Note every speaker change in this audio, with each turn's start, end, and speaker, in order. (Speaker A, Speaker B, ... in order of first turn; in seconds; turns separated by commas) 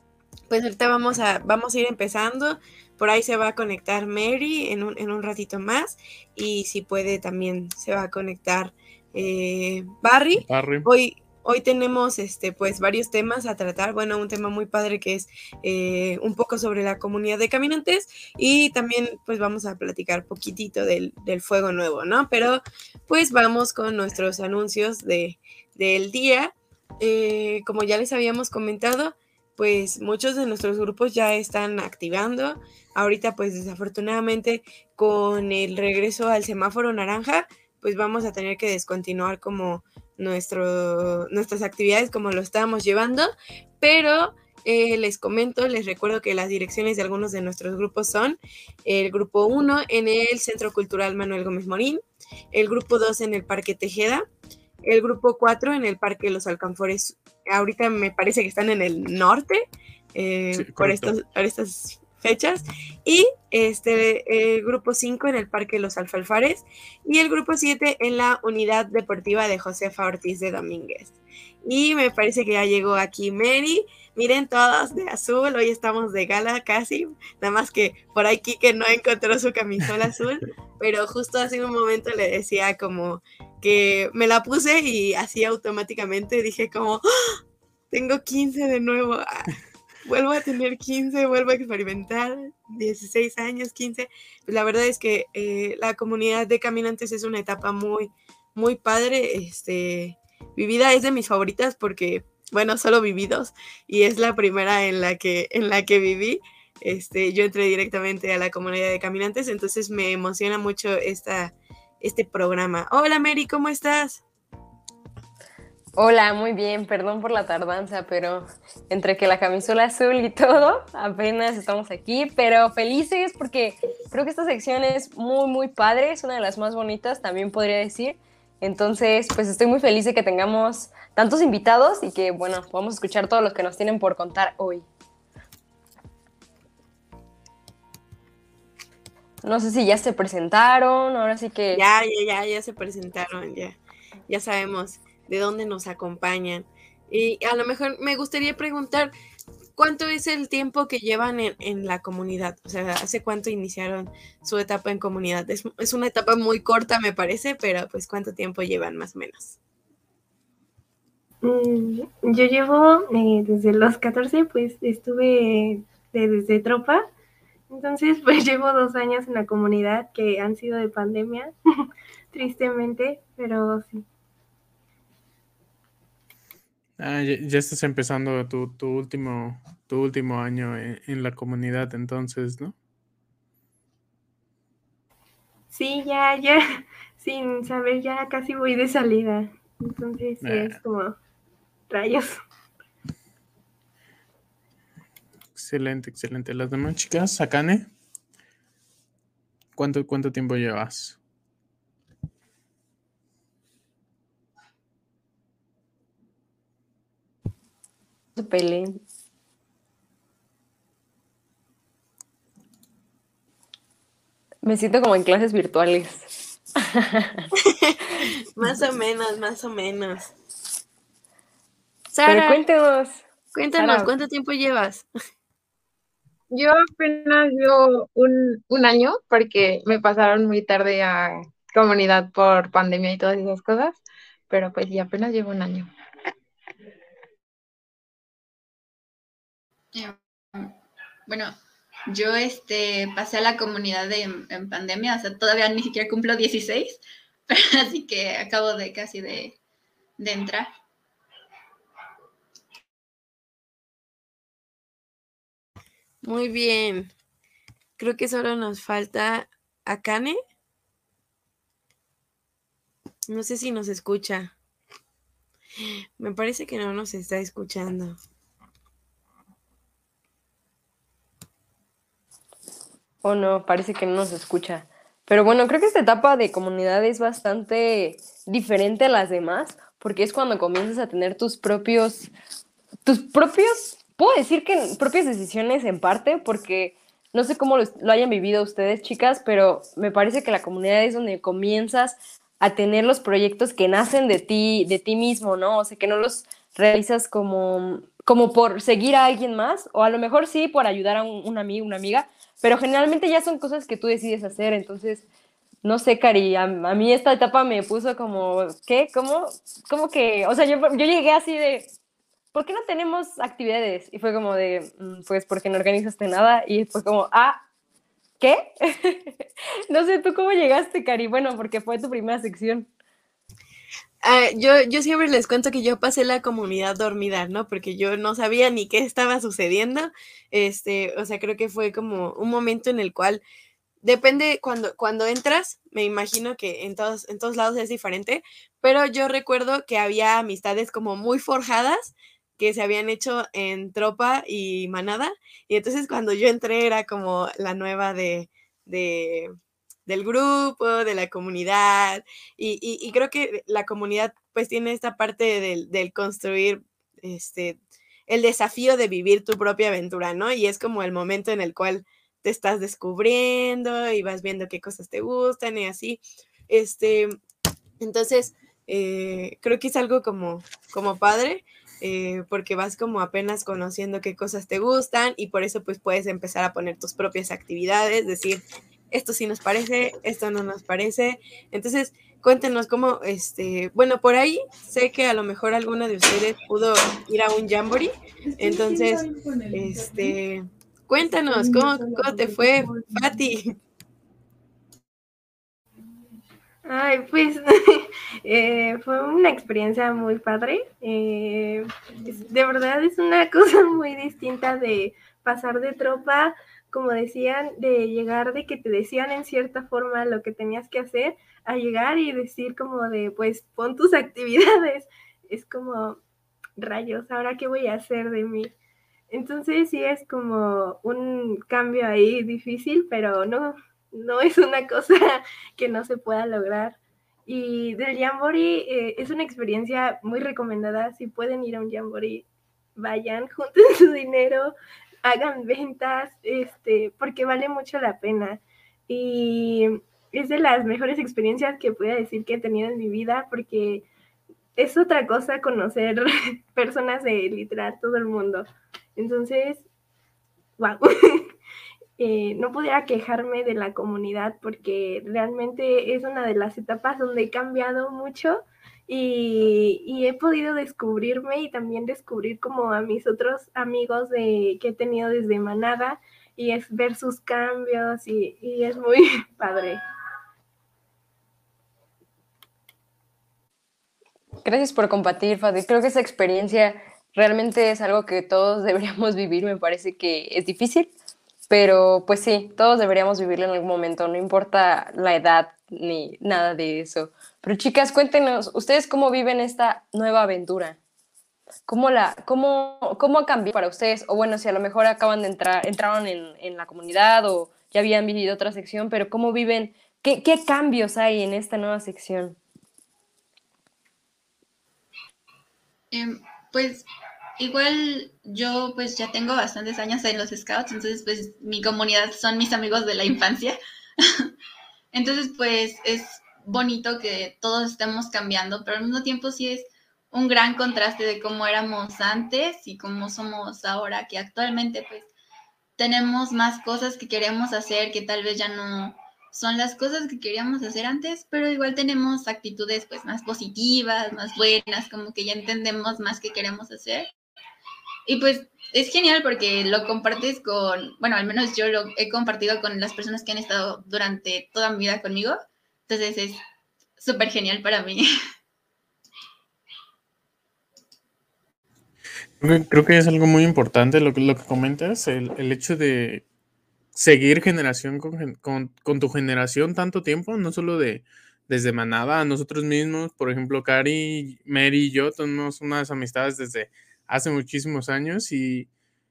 Speaker A: 0.5-52.0, Speaker B: 10.4-10.9, Speaker A: 52.5-54.3, Speaker A: 54.8-87.4, Speaker B: 60.5-61.1, Speaker A: 87.9-89.5, Speaker A: 90.0-114.2, Speaker C: 116.0-134.8, Speaker C: 139.4-141.8, Speaker A: 141.7-143.8, Speaker A: 144.3-149.1, Speaker A: 149.8-159.6, Speaker D: 161.4-167.1, Speaker D: 167.7-171.5, Speaker D: 172.3-174.0, Speaker B: 177.0-182.7, Speaker D: 185.7-191.2, Speaker B: 190.4-190.8, Speaker D: 191.9-192.4, Speaker B: 195.6-197.9, Speaker B: 199.8-201.2, Speaker C: 208.3-209.0, Speaker C: 214.6-217.5, Speaker A: 217.6-220.3, Speaker A: 222.1-222.6, Speaker C: 222.2-223.2, Speaker A: 223.5-225.1, Speaker C: 223.8-224.1, Speaker E: 226.5-235.9, Speaker F: 239.9-241.6, Speaker F: 242.1-249.5, Speaker F: 250.2-250.7, Speaker A: 256.2-257.1, Speaker A: 258.0-260.4, Speaker A: 263.3-264.5, Speaker A: 265.8-268.2, Speaker C: 273.2-282.3, Speaker C: 283.1-305.2, Speaker C: 305.8-311.9, Speaker C: 312.5-317.6, Speaker C: 318.4-322.9, Speaker A: 324.2-333.4, Speaker A: 334.0-349.5, Speaker A: 350.1-367.4, Speaker A: 368.0-393.7, Speaker D: 396.9-416.2, Speaker D: 416.8-418.7, Speaker D: 419.3-432.4, Speaker D: 433.0-444.1, Speaker D: 444.8-449.8, Speaker D: 450.8-451.5, Speaker D: 452.2-470.0, Speaker C: 474.6-481.1, Speaker C: 481.7-491.0, Speaker C: 491.9-502.6, Speaker F: 506.1-507.1, Speaker F: 507.6-514.5, Speaker F: 515.1-525.3, Speaker F: 526.0-537.3, Speaker F: 538.3-545.6, Speaker F: 546.1-546.6, Speaker F: 547.2-548.2, Speaker B: 552.6-556.4, Speaker B: 557.1-568.9